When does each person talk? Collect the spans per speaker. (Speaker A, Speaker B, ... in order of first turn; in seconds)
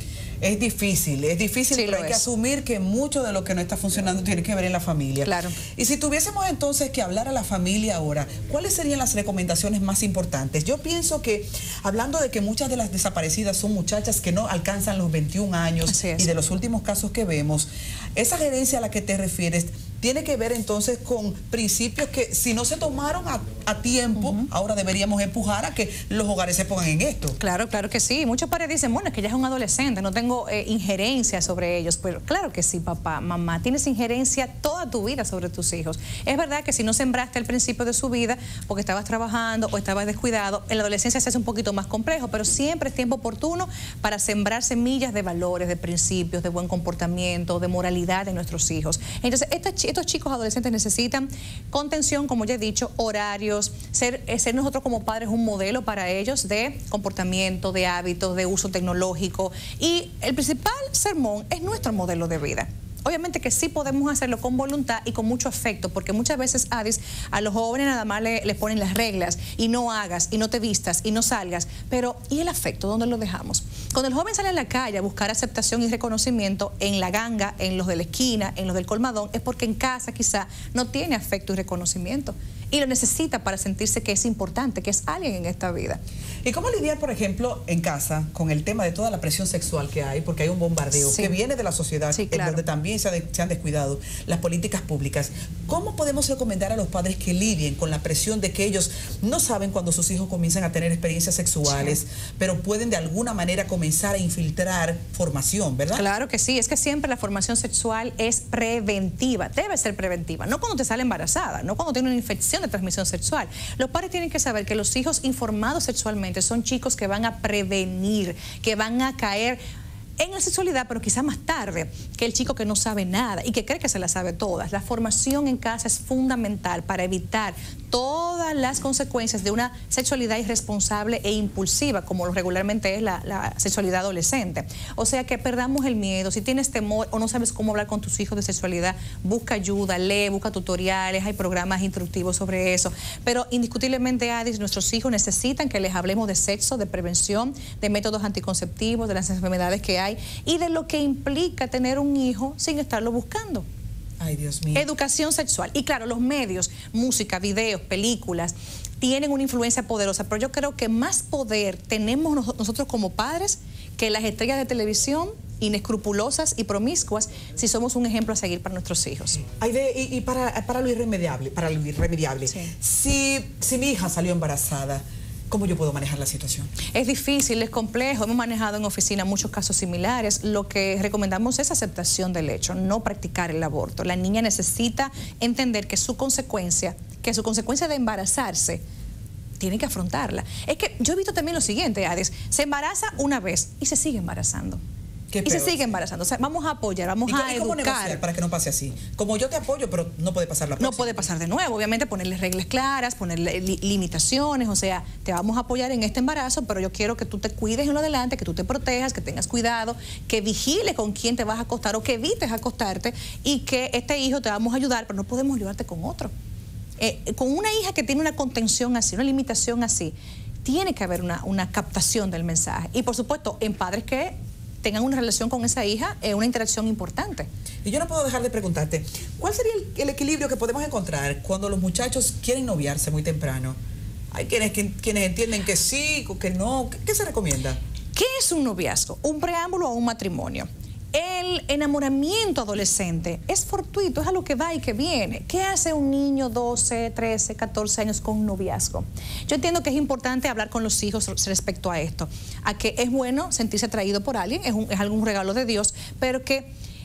Speaker A: 0.4-27.4, 86.4-106.0, 154.2-154.8, 169.5-176.7, 195.3-195.7, 197.3-201.3, 227.8-233.8, 234.3-237.8
Speaker B: 1.7-2.2, 5.2-5.6, 15.9-16.3, 24.2-24.4, 27.4-86.0, 91.0-91.3, 92.1-92.6, 101.7-101.9, 105.9-119.6, 120.2-153.6, 154.7-169.4, 176.9-188.8, 189.6-194.8, 195.4-198.2, 200.8-216.3, 217.0-227.5, 238.1-256.7